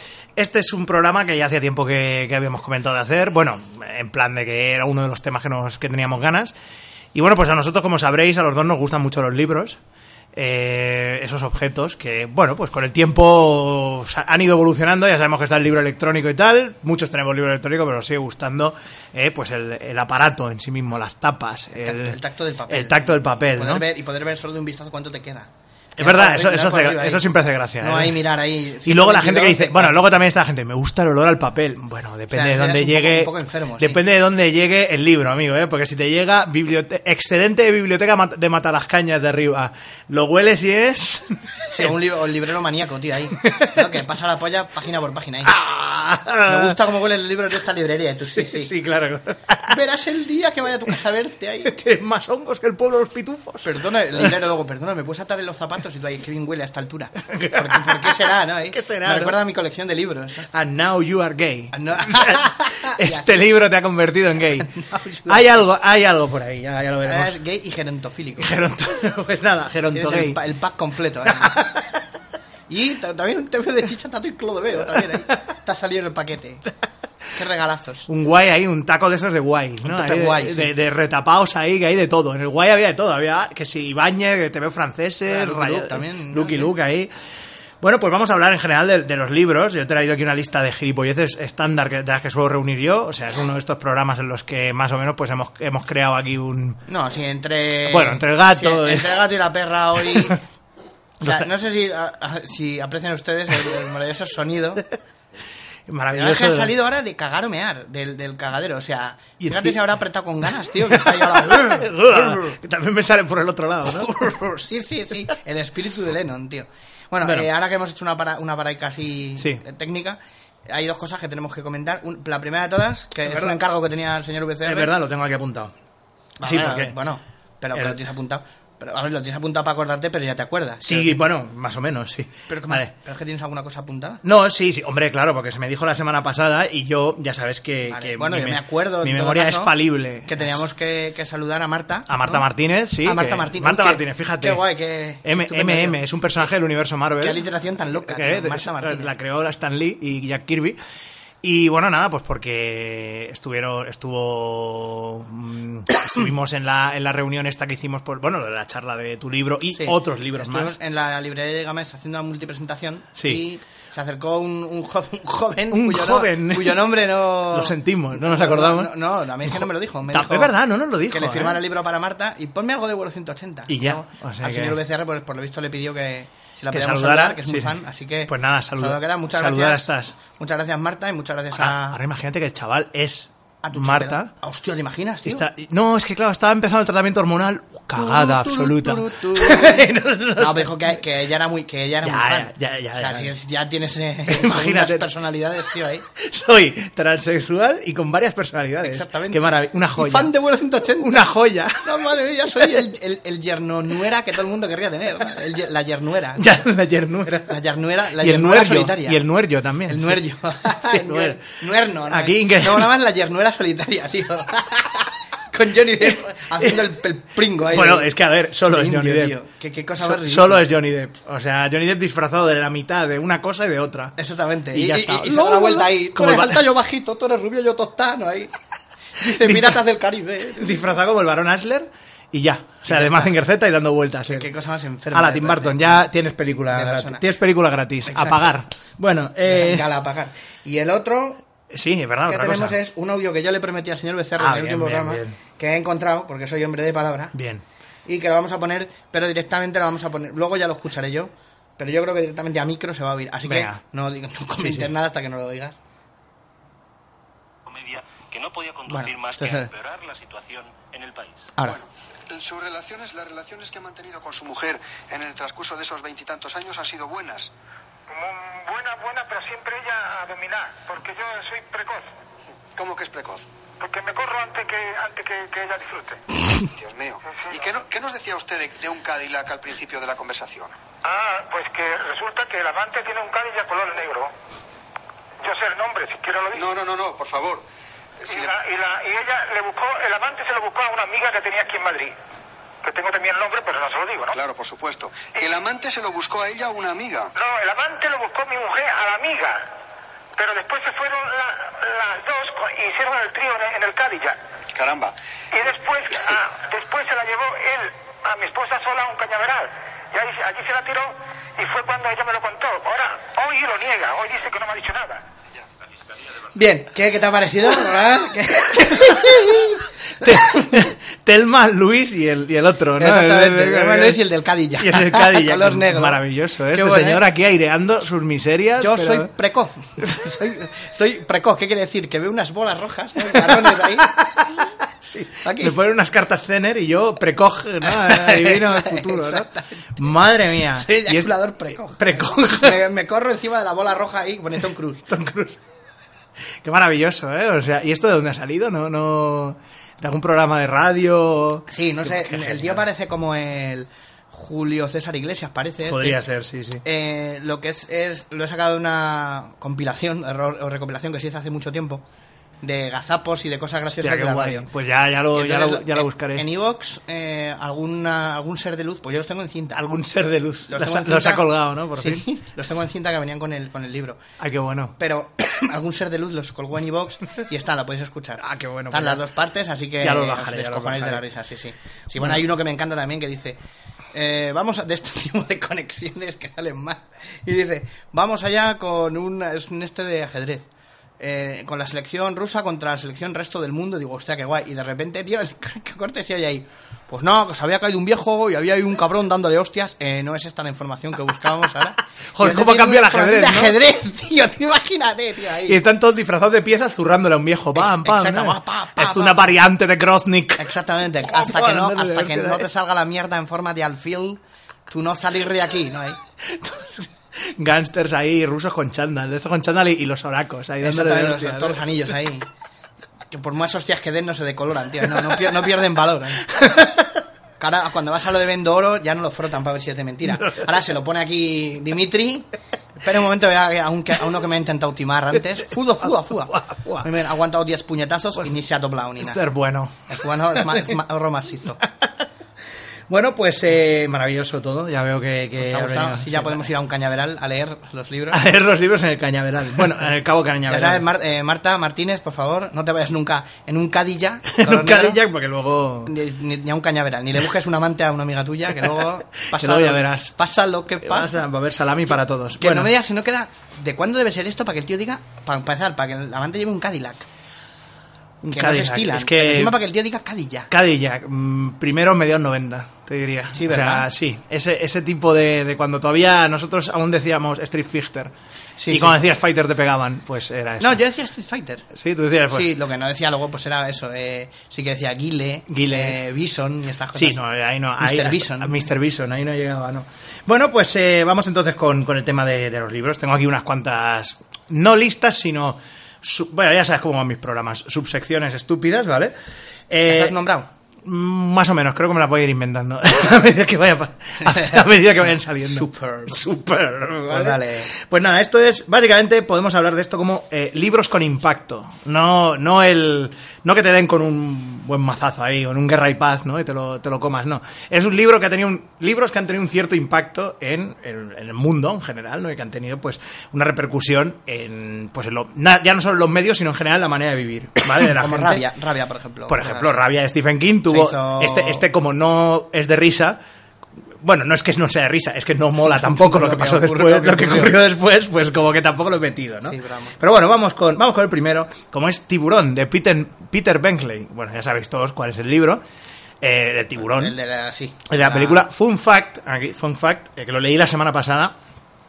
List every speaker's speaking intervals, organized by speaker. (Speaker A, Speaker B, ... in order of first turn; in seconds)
Speaker A: 0.3-6.5, 7.1-9.8, 10.3-23.8, 26.0-28.2, 28.8-41.9, 43.4-43.9, 45.4-46.8, 48.2-49.8, 51.6-54.3, 57.2-59.4, 60.5-64.7, 65.3-67.4, 68.4-70.4, 71.2-72.0, 74.9-75.2, 78.1-87.1, 87.8-96.8, 97.8-99.2, 100.0-100.4, 101.2-101.5, 105.9-106.7, 109.4-109.8, 110.8-114.1, 117.2-117.5, 123.2-123.5, 124.6-125.7, 126.4-126.9, 130.8-132.9, 134.2-140.6, 142.1-144.6, 145.2-147.4, 147.9-150.8, 151.4-160.8, 163.2-163.4, 165.7-168.9, 169.4-171.6, 173.7-174.8, 176.7-180.1, 181.5-184.3, 185.2-191.0, 192.0-193.3, 194.3-195.1, 196.2-200.3, 201.0-201.8, 206.4-207.5, 208.2-211.4, 212.1-212.9, 216.0-217.0, 217.6-219.4, 220.0-224.2, 224.7-226.6, 229.2-229.8, 230.5-234.5, 235.1-239.9, 241.7-242.8, 244.4-245.4, 247.3-247.6, 253.4-253.8, 254.6-254.9, 318.9-319.3, 320.2-324.2, 324.8-329.3, 333.3-342.8, 345.1-345.6, 346.6-352.8, 355.9-356.8, 364.0-366.4, 369.7-372.2, 374.4-374.9, 378.4-379.2, 380.0-381.2, 402.3-403.8, 405.6-412.7, 416.4-422.2, 426.4-427.2, 430.3-430.6, 436.0-437.1, 439.2-440.9, 441.9-442.1, 443.1-446.6, 448.3-451.0, 454.5-456.1, 459.5-460.3, 461.0-462.9, 468.4-469.7, 470.7-478.3, 478.9-481.0, 481.9-482.7, 485.7-486.2, 487.1-499.3, 499.9-500.3, 501.0-528.6, 529.5-533.4, 534.2-545.8, 546.4-547.3, 548.1-551.5
Speaker B: 21.8-27.2, 27.8-30.1, 32.3-34.0, 41.7-45.5, 46.4-48.7, 49.7-51.7, 53.6-60.5, 61.7-63.3, 64.7-65.5, 67.0-68.5, 69.9-71.6, 72.7-76.7, 77.3-78.1, 79.8-80.7, 85.2-86.7, 96.9-100.4, 101.2-104.8, 106.1-112.6, 113.9-124.9, 126.4-131.2, 132.5-134.2, 137.9-142.4, 143.0-146.0, 147.2-149.1, 159.7-170.5, 171.1-181.9, 183.6-185.4, 187.9-196.0, 198.8-201.2, 201.8-206.5, 207.4-209.2, 209.9-218.1, 218.6-220.7, 224.2-228.5, 229.2-230.9, 232.8-233.4, 234.3-236.0, 236.7-237.2, 238.1-238.4, 239.4-241.4, 242.3-247.3, 248.1-255.8, 258.9-259.7, 316.5-320.8, 323.0-327.2, 328.8-334.2, 335.4-335.8, 337.9-340.0, 340.6-345.1, 351.7-356.2, 356.8-362.0, 362.6-364.7, 365.3-369.8, 370.7-374.2, 375.0-383.6, 384.1-390.6, 391.2-405.8, 407.7-409.5, 410.6-416.2, 420.8-422.5, 423.3-426.5, 427.6-432.5, 433.0-439.4, 440.1-441.8, 445.6-448.4, 450.7-455.2, 456.1-461.4, 462.6-467.3, 468.5-470.7, 473.5-474.1, 478.8-479.2, 480.8-481.9, 482.5-487.4, 488.0-488.9, 500.1-500.7, 504.4-504.8, 505.6-506.4, 507.3-507.9, 527.9-530.0, 530.9-531.8, 535.8-537.8, 539.6-540.2, 547.0-548.6
Speaker C: 257.7-261.5
Speaker D: 261.6-267.5, 272.7-273.4, 276.7-280.8, 286.5-287.6, 288.2-288.5, 294.3-297.3, 304.7-305.1
Speaker E: 268.1-272.1, 273.8-276.2, 277.3-277.7, 281.0-284.3, 285.4-286.7, 288.2-292.1, 292.8-294.4, 297.3-299.7, 300.4-304.4, 305.5-315.2